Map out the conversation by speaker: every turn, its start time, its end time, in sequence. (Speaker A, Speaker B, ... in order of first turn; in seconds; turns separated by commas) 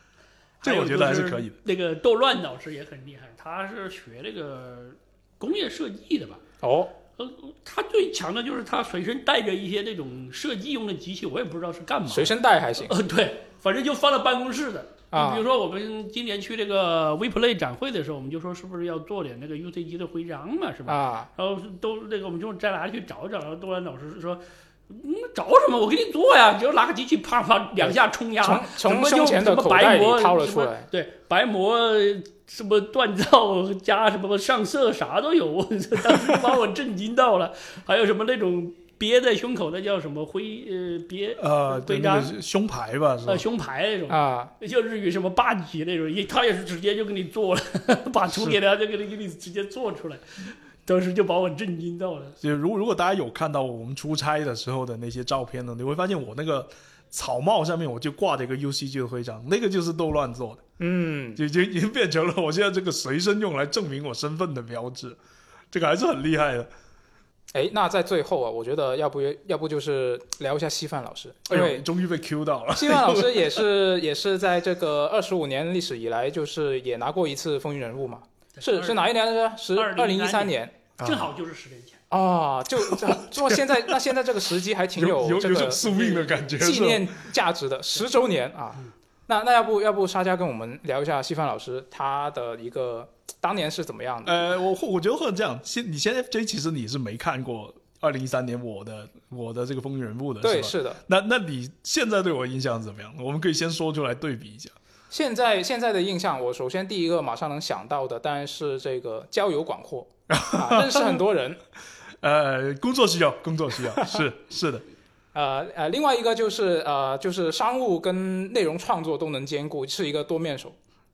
Speaker A: 0.6-6.4, Speaker B: 0.6-1.6, Speaker C: 6.6-6.9, Speaker A: 7.2-42.3, Speaker C: 12.1-12.9, Speaker C: 15.1-15.4, Speaker C: 20.9-21.3, Speaker C: 27.8-30.9, Speaker B: 41.4-43.4, Speaker A: 43.3-52.4, Speaker C: 44.1-44.5, Speaker B: 52.4-60.6, Speaker C: 60.8-61.4, Speaker B: 61.3-65.2, Speaker B: 65.7-66.7, Speaker C: 67.5-71.8, Speaker B: 71.5-73.7, Speaker C: 72.8-80.8, Speaker A: 78.6-79.0, Speaker A: 79.7-82.0, Speaker B: 81.0-81.3, Speaker C: 82.1-94.5, Speaker B: 82.8-84.0, Speaker B: 85.0-87.2, Speaker B: 94.2-104.7, Speaker C: 100.4-101.0, Speaker C: 105.1-111.6, Speaker B: 110.3-111.2, Speaker B: 112.2-114.8, Speaker C: 115.3-120.8